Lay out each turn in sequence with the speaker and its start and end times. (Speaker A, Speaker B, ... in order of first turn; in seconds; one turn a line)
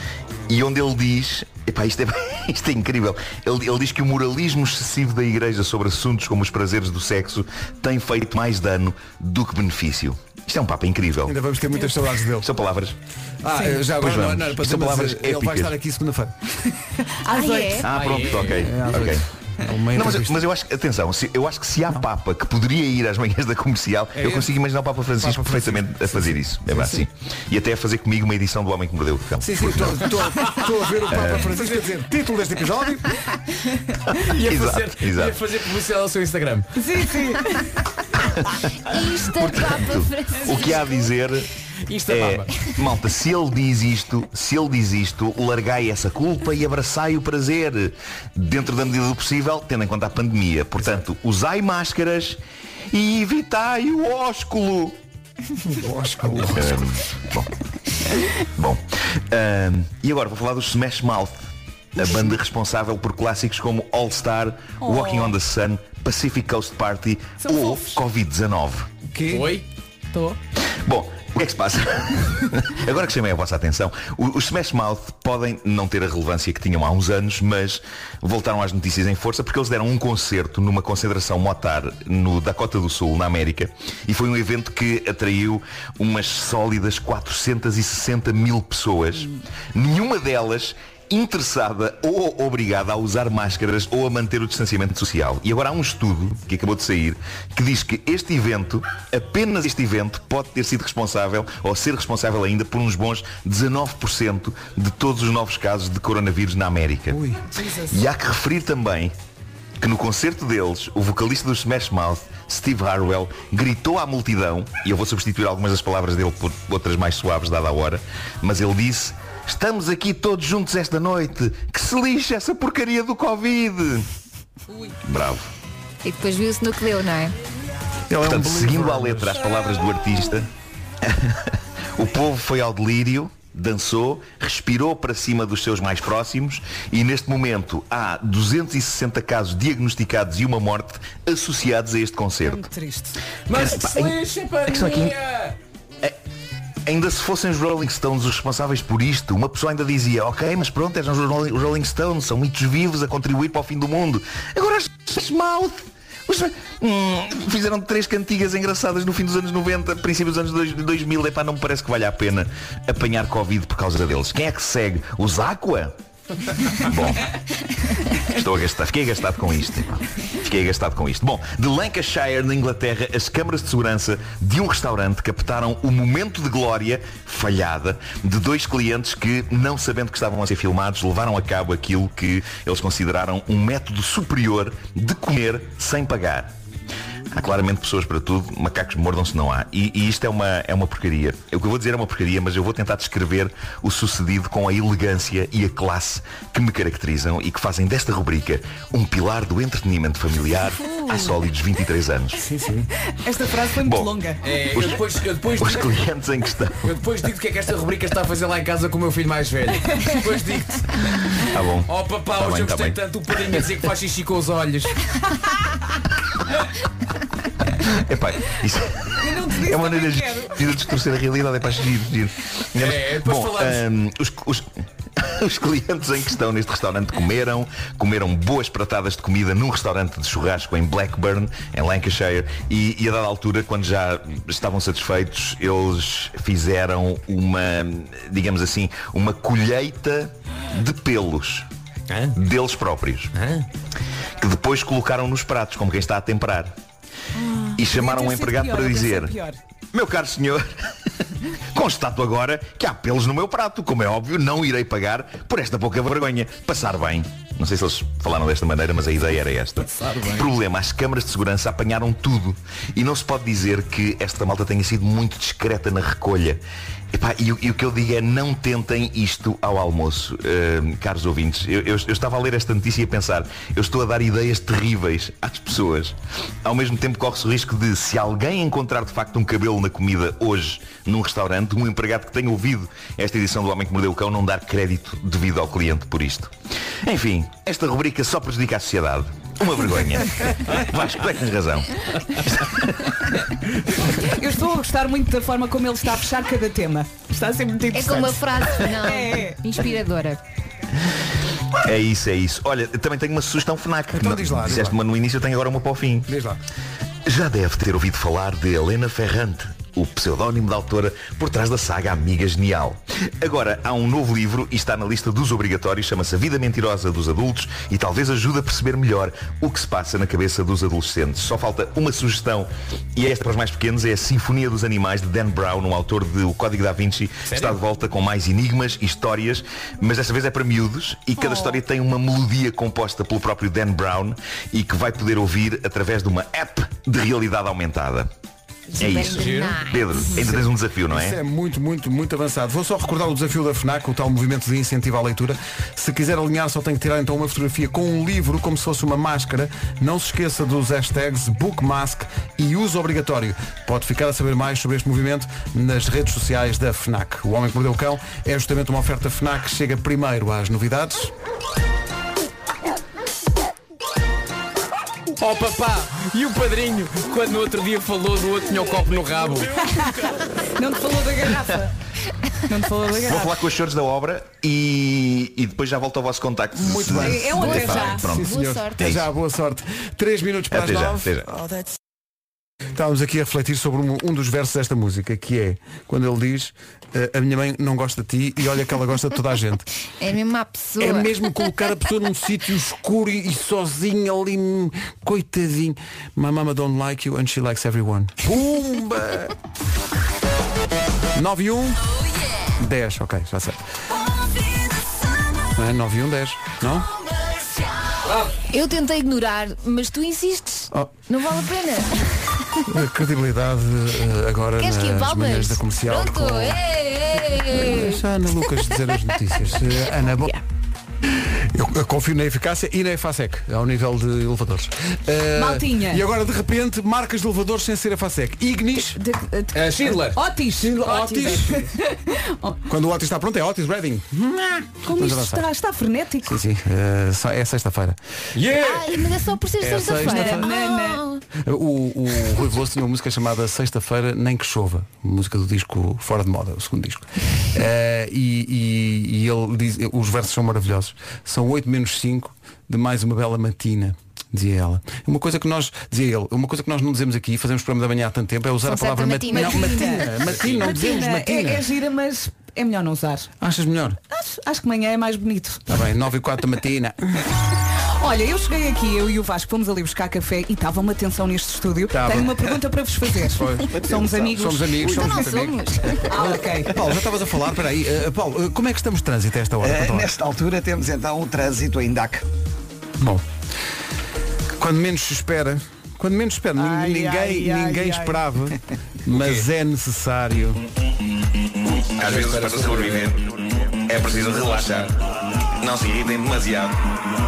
Speaker A: 0.5-11.3
Speaker B: 11.2-12.5
Speaker A: 12.4-12.9
Speaker B: 13.4-16.4
Speaker A: 13.8-15.7
Speaker C: 17.2-17.9
Speaker D: 17.3-17.9
Speaker A: 17.8-19.3
Speaker E: 17.9-19.1
Speaker B: 18.6-20.4
Speaker A: 19.9-30.1
Speaker B: 24.1-24.5
Speaker B: 25.1-27.0
Speaker B: 29.4-33.1
Speaker A: 31.1-31.5
Speaker E: 31.5-31.8
Speaker A: 34.1-35.4
Speaker E: 34.3-36.7
Speaker C: 36.8-37.7
Speaker A: 38.2-41.5
Speaker D: 38.9-41.1
Speaker E: 41.9-42.7
Speaker A: 42.1-52.4
Speaker A: 52.9-55.0
Speaker B: 55.6-56.8
Speaker A: 56.5-57.5
Speaker A: 58.4-61.3
Speaker A: 62.0-68.9
Speaker C: 64.8-65.3
Speaker C: 67.4-68.0
Speaker B: 69.1-69.5
Speaker E: 69.3-69.7
Speaker C: 70.1-70.4
Speaker A: 70.8-107.2
Speaker B: 107.1-107.4
Speaker C: 107.5-108.0
Speaker A: 107.9-109.1
Speaker A: 109.8-124.1
Speaker A: 125.0-125.5
Speaker D: 126.0-127.3
Speaker B: 128.1-129.5
Speaker A: 128.2-130.5
Speaker A: 131.0-142.7
Speaker C: 142.4-143.2
Speaker E: 143.5-145.6
Speaker A: 143.5-145.2
Speaker A: 146.9-165.9
Speaker A: 166.7-167.3
Speaker A: 168.3-186.5
Speaker A: 187.3-202.4
Speaker B: 202.4-202.9
Speaker C: 203.2-204.4
Speaker A: 203.8-204.2
Speaker E: 204.4-205.8
Speaker A: 204.7-205.0
Speaker A: 205.6-206.9
Speaker E: 206.8-215.0
Speaker A: 211.5-213.0
Speaker A: 217.8-241.7
Speaker C: 219.2-220.6
Speaker E: 222.8-223.8
Speaker E: 242.1-242.4
Speaker A: 242.3-243.3
Speaker E: 243.3-243.7
Speaker A: 244.4-246.7
Speaker C: 247.3-249.6
Speaker A: 247.8-249.4
Speaker A: 249.9-250.7
Speaker A: 251.7-266.6
Speaker E: 259.8-260.5
Speaker A: 267.1-293.3
Speaker C: 294.1-299.8
Speaker D: 297.9-300.4
Speaker A: 301.8-306.3
Speaker B: 304.1-305.0
Speaker B: 306.3-306.6
Speaker A: 307.2-338.3
Speaker E: 327.5-327.8
Speaker D: 338.9-340.4
Speaker A: 339.0-341.4
Speaker E: 339.2-339.9
Speaker B: 340.4-361.3
Speaker E: 365.4-370.0
Speaker C: 369.8-371.9
Speaker C: 372.7-373.6
Speaker A: 373.1-379.2
Speaker B: 376.8-381.6
Speaker C: 377.2-378.2
Speaker D: 377.5-379.1
Speaker A: 380.7-381.5
Speaker B: 382.9-389.9
Speaker D: 390.2-391.7
Speaker B: 391.0-399.6
Speaker B: 401.3-402.0
Speaker B: 402.8-403.8
Speaker B: 405.8-407.1
Speaker E: 408.2-408.6
Speaker D: 408.6-412.9
Speaker B: 412.9-416.8
Speaker D: 414.8-418.2
Speaker B: 417.6-420.5
Speaker B: 421.4-429.2
Speaker C: 425.5-426.2
Speaker C: 429.1-432.8
Speaker E: 429.7-430.4
Speaker B: 430.8-431.8
Speaker B: 432.9-435.7
Speaker C: 435.0-436.6
Speaker B: 436.5-438.2
Speaker E: 438.6-439.4
Speaker D: 438.7-441.4
Speaker B: 439.8-440.7
Speaker C: 440.2-441.2
Speaker B: 441.6-461.9
Speaker D: 458.9-460.4
Speaker C: 459.5-463.5
Speaker B: 463.6-464.2
Speaker C: 464.3-465.9
Speaker B: 465.9-467.4
Speaker C: 468.2-475.4
Speaker B: 472.1-472.7
Speaker B: 473.5-480.3
Speaker D: 475.0-476.3
Speaker C: 476.2-476.9
Speaker F: 479.8-482.4
Speaker B: 483.2-483.5
Speaker B: 484.8-490.8
Speaker E: 489.3-489.7
Speaker A: 491.9-495.1
Speaker E: 492.2-493.4
Speaker A: 495.8-497.0